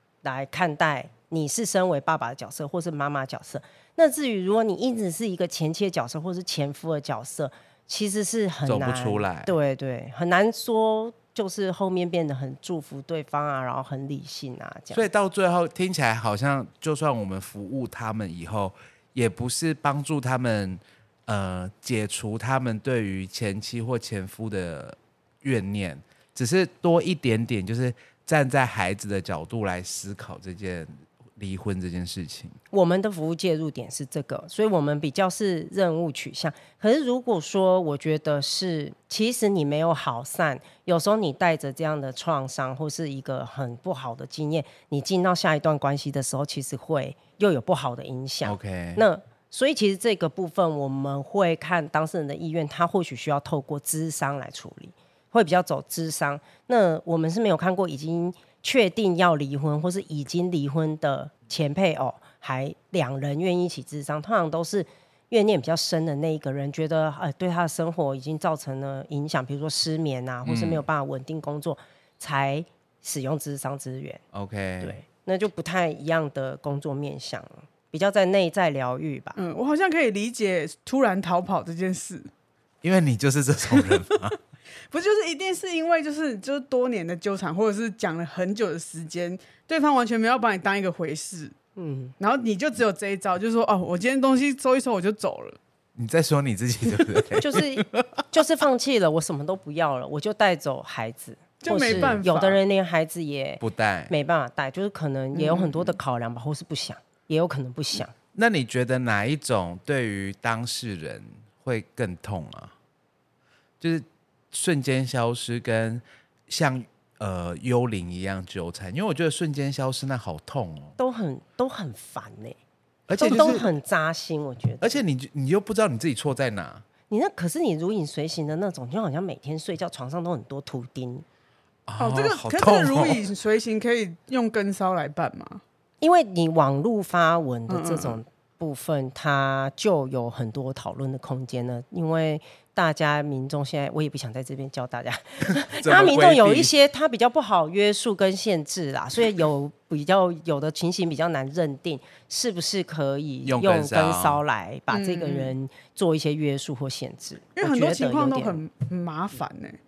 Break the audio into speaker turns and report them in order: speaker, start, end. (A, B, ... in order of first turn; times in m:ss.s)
0:00.2-0:15.0 A
0:08.6-0:09.5 B
0:14.9-0:32.6 B
0:32.7-1:14.2 A
0:48.4-0:49.0 B
1:10.4-1:10.8 B
1:14.3-1:15.0 B
1:14.8-1:19.4 A
1:19.4-1:22.3 C
1:22.8-1:24.4 B
1:23.7-1:24.0 C
1:24.9-1:31.5 C
1:31.8-1:32.1 A
1:32.2-1:35.6 C
1:36.0-1:38.0 B
1:37.4-1:48.1 A
1:41.6-1:42.6 C
1:41.8-1:42.2 B
1:43.6-1:44.1 B
1:45.3-1:46.0 C
1:48.3-1:52.7 B
1:53.8-2:01.0 B
2:01.0-2:02.6 A
2:03.1-2:03.7 B
2:03.2-2:05.0 A
2:04.8-2:06.8 B
2:07.1-2:11.2 A
2:11.9-2:13.2 B
2:12.0-2:15.6 C
2:16.0-2:38.6 A
2:17.7-2:18.2 C
2:25.4-2:26.7 B
2:33.4-2:34.4 B
2:34.9-2:35.5 C
2:37.6-2:39.8 C